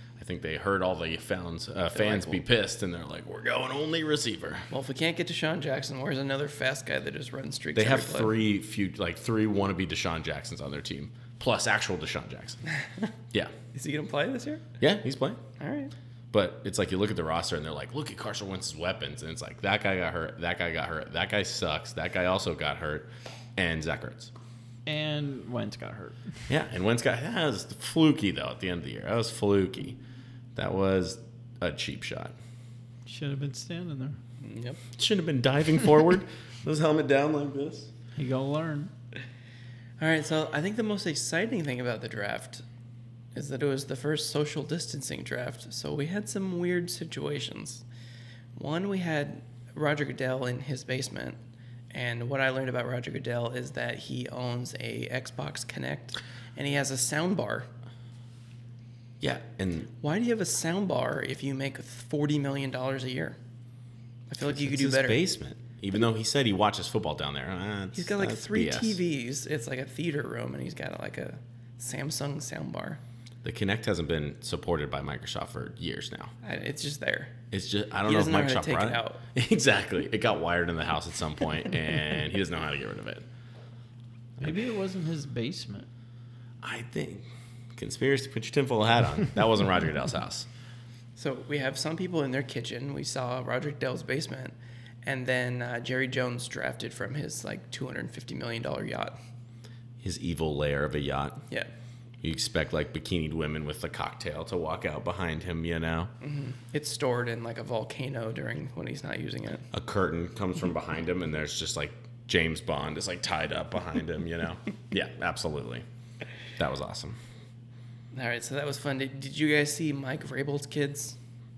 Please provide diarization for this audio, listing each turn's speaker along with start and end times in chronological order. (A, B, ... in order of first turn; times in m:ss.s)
0:00.2-0:04.7 A
0:01.9-0:02.4 B
0:04.7-0:08.3 B
0:07.8-0:12.6 A
0:13.7-0:14.6 B
0:14.8-0:15.4 A
0:15.6-0:15.9 B
0:16.3-0:24.3 A
0:24.9-0:26.4 C
0:26.5-0:30.0 A
0:30.6-0:32.4 A
0:33.1-0:34.2 C
0:34.4-0:34.8 B
0:35.0-0:37.9 A
0:38.2-0:38.9 C
0:40.0-0:42.6 B
0:43.4-0:47.8 B
0:48.6-0:51.4 B
0:51.9-0:57.7 B
0:59.2-0:59.9 A
1:00.0-1:03.4 B
1:04.3-1:05.2 B
1:04.4-1:09.0 A
1:07.9-1:13.0 B
1:13.4-1:16.3 A
1:16.4-1:17.3 B
1:17.5-1:23.2 A
1:18.1-1:19.2 B
1:24.4-1:25.9 C
1:26.6-1:30.5 A
1:31.2-1:39.2 B
1:40.0-1:41.4 A
1:42.2-1:46.1 A
1:46.2-1:49.7 B
1:49.7-1:55.8 A
1:56.6-1:57.2 A
1:58.1-2:01.2 B